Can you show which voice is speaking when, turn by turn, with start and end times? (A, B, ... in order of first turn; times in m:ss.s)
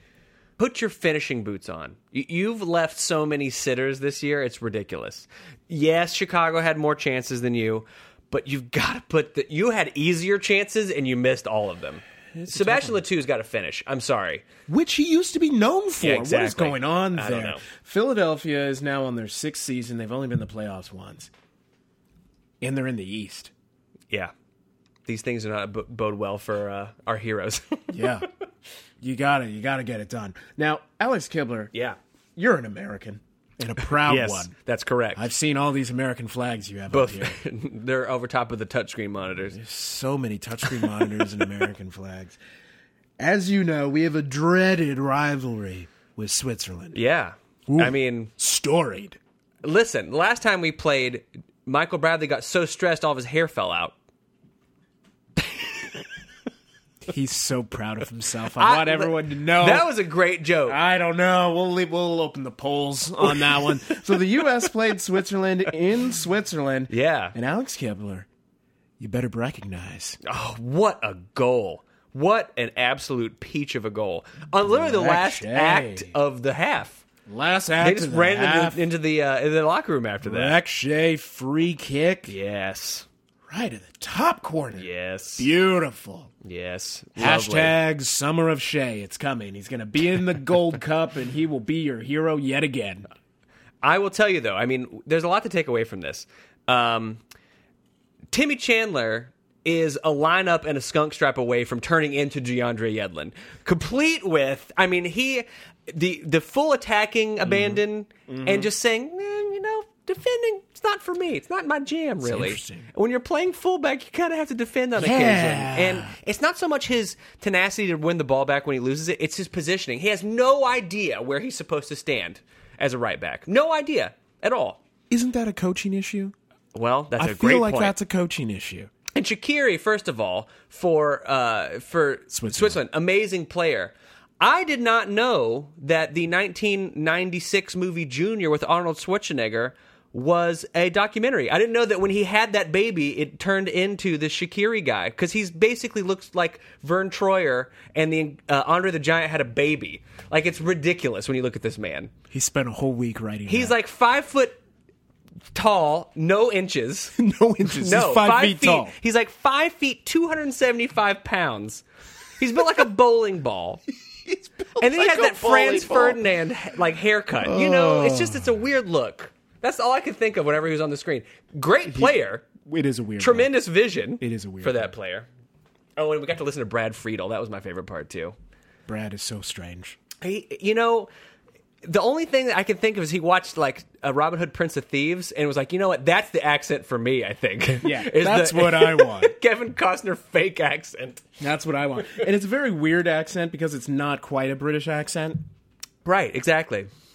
0:00.6-0:14.4 A
0:12.3-0:13.0 B
0:14.7-0:21.3 B
0:16.0-0:17.6 A
0:22.6-0:23.5 B
0:25.0-0:28.0 A
0:27.9-0:28.3 B
0:29.0-0:31.7 B
0:32.4-0:34.5 B
0:33.9-0:35.3 A
0:35.1-0:37.4 B
0:36.9-0:39.6 A
0:39.5-0:42.4 B
0:43.2-0:47.0 B
0:46.9-0:48.3 A
0:47.7-0:49.2 B
0:49.6-0:53.9 A
0:57.1-0:59.9 B
0:58.6-1:00.8 A
1:00.6-1:08.3 B
1:03.2-1:04.7 A
1:06.9-1:07.3 A
1:09.0-1:10.2 B
1:10.2-1:17.0 A
1:14.6-1:16.1 B
1:17.3-1:18.9 B
1:17.8-1:20.6 A
1:20.2-1:22.3 B
1:22.3-1:23.0 A
1:23.5-1:26.3 B
1:24.8-1:25.5 A
1:26.4-1:27.8 A
1:27.2-1:33.1 B
1:33.8-1:37.2 A
1:38.3-2:04.8 A
1:47.5-1:48.7 B
1:52.2-1:52.9 B
1:55.0-1:56.2 B
2:05.1-2:06.3 B
2:06.7-2:07.9 A
2:07.2-2:08.9 B
2:09.1-2:32.1 A
2:12.3-2:12.8 B
2:32.3-2:33.8 B
2:33.5-2:34.6 A
2:35.5-2:41.8 A
2:37.2-2:38.9 B
2:42.4-2:43.8 A
2:44.2-2:46.2 B
2:44.8-2:52.4 A
2:47.4-2:48.6 B
2:51.9-2:53.6 B
2:53.2-2:55.3 A
2:54.2-2:54.9 B
2:56.0-2:58.3 A
2:58.9-3:00.0 B
3:00.2-3:01.1 A
3:01.8-3:11.2 A
3:07.8-3:09.3 B
3:11.4-3:15.4 B
3:16.0-3:16.9 A